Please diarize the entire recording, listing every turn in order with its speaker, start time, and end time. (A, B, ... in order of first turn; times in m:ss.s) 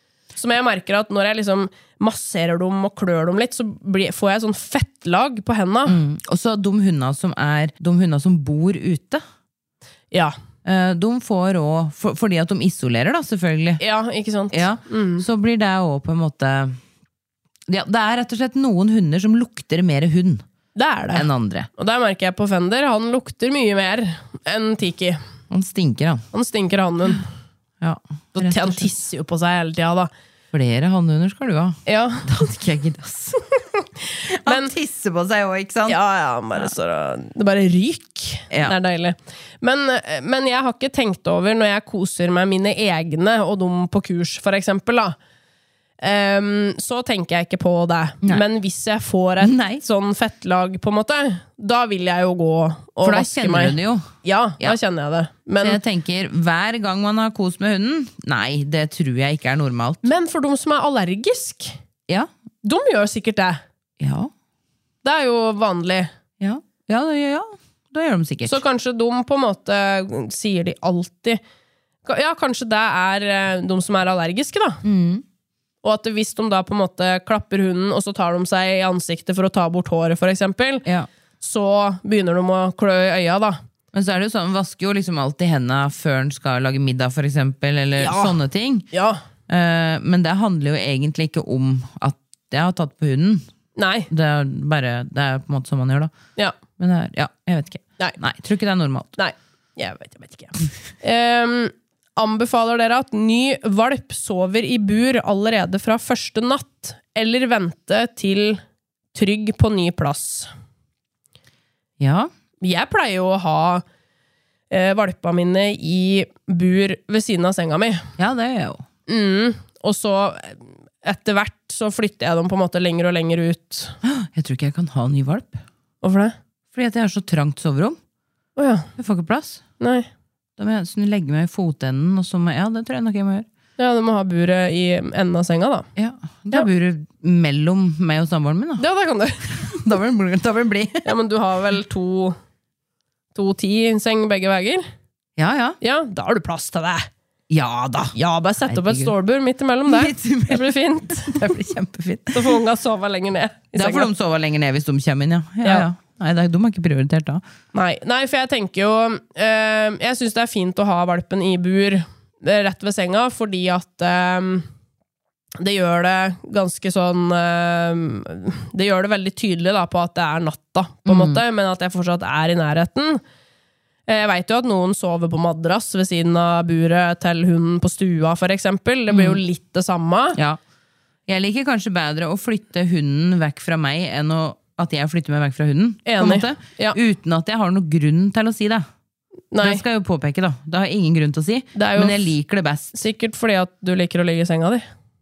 0:00.4-0:06.0 A
0:05.9-0:09.2 B
0:10.6-0:13.8 B
0:13.8-0:15.2 A
0:14.5-0:16.8 B
0:17.7-0:20.4 B
0:20.8-0:21.3 A
0:21.1-0:21.7 B
0:21.8-0:25.2 A
0:25.5-0:26.2 B
0:26.3-0:27.2 A
0:27.8-0:28.9 B
0:28.4-0:30.1 A
0:30.5-0:33.4 B
0:31.9-0:32.4 A
0:34.3-0:36.0 B
0:34.4-0:34.7 A
0:35.9-0:45.2 A
0:46.0-0:55.8 A
0:49.4-0:49.8 B
0:53.0-0:54.8 B
0:55.6-1:00.0 B
1:00.0-1:01.8 A
1:02.6-1:03.6 A
1:04.0-1:04.3 B
1:05.0-1:06.1 A
1:06.4-1:08.6 B
1:08.5-1:11.4 A
1:12.0-1:14.8 A
1:14.8-1:15.2 B
1:15.8-1:20.8 A
1:21.4-1:23.6 A
1:23.9-1:28.9 B
1:28.0-1:28.4 A
1:28.9-1:29.2 A
1:29.5-1:33.5 B
1:33.8-1:34.1 A
1:34.1-1:36.1 B
1:36.8-1:39.2 B
1:39.2-1:48.6 A
1:49.1-1:50.5 A
1:52.0-1:52.3 B
1:52.6-1:53.8 A
1:54.7-1:58.1 A
1:58.2-1:58.8 B
1:59.1-2:03.9 A
2:04.0-2:05.6 B
2:06.0-2:06.4 A
2:06.7-2:08.0 B
2:08.6-2:08.9 A
2:09.0-2:09.6 B
2:09.8-2:10.1 A
2:10.6-2:13.5 B
2:13.8-2:15.9 A
2:16.0-2:18.8 B
2:18.8-2:19.4 A
2:19.4-2:21.1 B
2:21.0-2:22.4 A
2:23.4-2:24.8 A
2:25.4-2:25.8 B
2:25.8-2:27.1 A
2:27.5-2:28.2 B
2:28.2-2:31.5 A
2:28.7-2:29.1 B
2:29.9-2:32.6 B
2:32.3-2:34.1 A
2:33.7-2:37.4 B
2:37.7-2:44.7 A
2:45.6-2:53.2 A
2:51.1-2:51.4 B
2:54.1-3:00.4 A
2:59.1-2:59.4 B
3:00.4-3:00.6 B
3:01.3-3:08.9 B
3:06.1-3:07.0 A
3:09.5-3:09.8 A
3:09.6-3:13.0 B
3:11.8-3:12.2 A
3:12.9-3:14.8 A